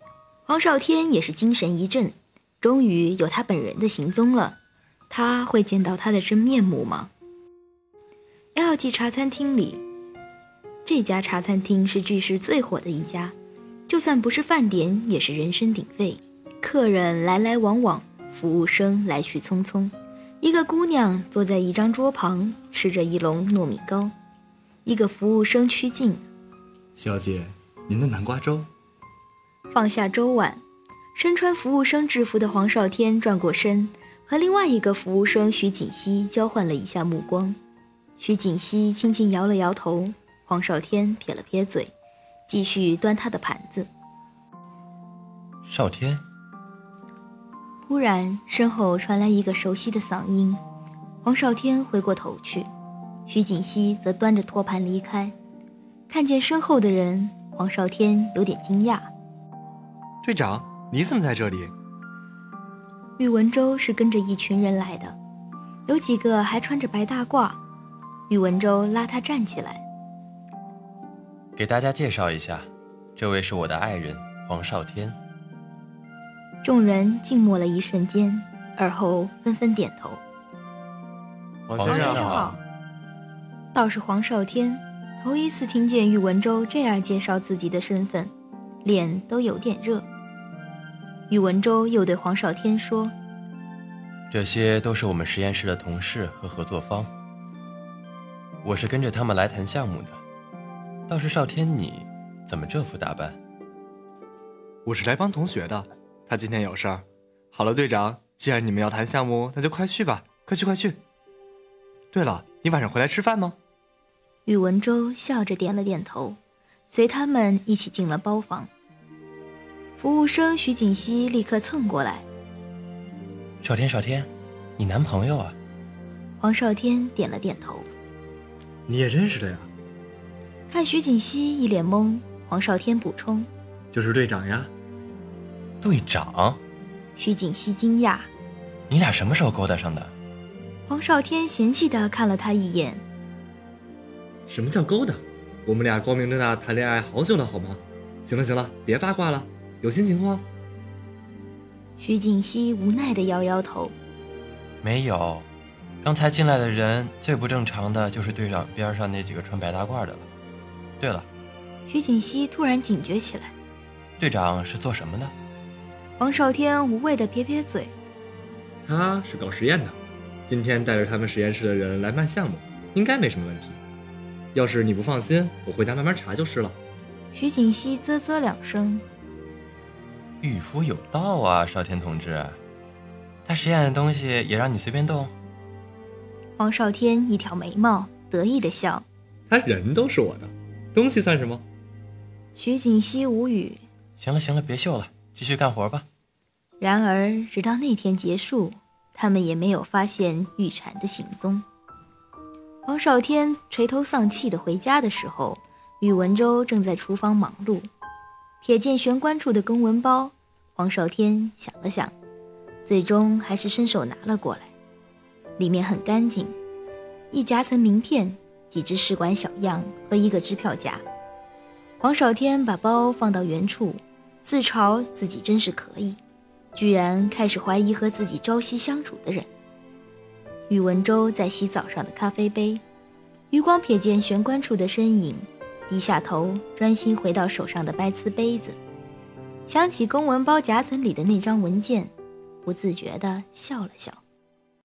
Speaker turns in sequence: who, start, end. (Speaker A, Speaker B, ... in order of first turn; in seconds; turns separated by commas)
Speaker A: 0.5-4.6, Speaker A: 5.1-7.1, Speaker A: 8.5-9.8, Speaker A: 10.8-13.3, Speaker A: 13.9-24.1, Speaker A: 24.8-26.2, Speaker B: 26.9-28.7, Speaker A: 29.7-30.6, Speaker A: 31.1-37.6, Speaker A: 38.2-41.9, Speaker A: 42.5-43.9, Speaker C: 45.6-46.2, Speaker A: 47.8-50.6, Speaker A: 51.2-52.7, Speaker A: 53.3-55.3, Speaker A: 56.1-59.1, Speaker B: 60.2-61.7, Speaker A: 63.2-65.2, Speaker A: 65.9-67.6, Speaker A: 68.3-69.8, Speaker C: 71.5-75.2, Speaker A: 76.6-80.2, Speaker B: 81.7-82.5, Speaker C: 81.8-82.5, Speaker A: 81.8-82.5, Speaker A: 83.7-88.3, Speaker A: 88.8-90.0, Speaker A: 91.3-93.1, Speaker C: 94.3-97.1, Speaker C: 98.6-100.2, Speaker C: 101.1-103.4, Speaker B: 104.8-111.0, Speaker B: 112.1-113.6, Speaker A: 114.5-116.4, Speaker A: 116.9-118.7, Speaker A: 120.0-122.2, Speaker C: 123.6-125.5, Speaker A: 126.4-127.9, Speaker B: 128.9-129.7, Speaker A: 130.7-133.5, Speaker B: 133.9-134.7, Speaker C: 135.8-136.6, Speaker A: 137.2-138.3, Speaker C: 138.9-140.1, Speaker A: 140.9-143.0, Speaker B: 144.5-150.4, Speaker A: 152.0-153.9, Speaker C: 154.8-155.5, Speaker C: 156.0-160.3, Speaker C: 161.0-161.3, Speaker A: 161.9-163.5, Speaker C: 164.2-165.3, Speaker A: 166.2-167.9, Speaker B: 168.8-173.8, Speaker B: 174.5-176.8, Speaker A: 177.3-179.1, Speaker C: 180.4-182.6, Speaker C: 183.4-185.3, Speaker A: 186.6-189.1, Speaker B: 189.5-191.6, Speaker A: 192.6-193.8, Speaker C: 194.2-196.1, Speaker A: 196.8-201.7, Speaker A: 202.8-207.9, Speaker A: 208.6-212.1, Speaker A: 212.8-214.7, Speaker A: 215.6-216.6, Speaker A: 217.3-221.0, Speaker A: 222.0-226.2, Speaker A: 226.7-229.5, Speaker A: 230.7-232.8, Speaker A: 233.5-238.8, Speaker A: 239.7-242.1, Speaker A: 242.6-244.2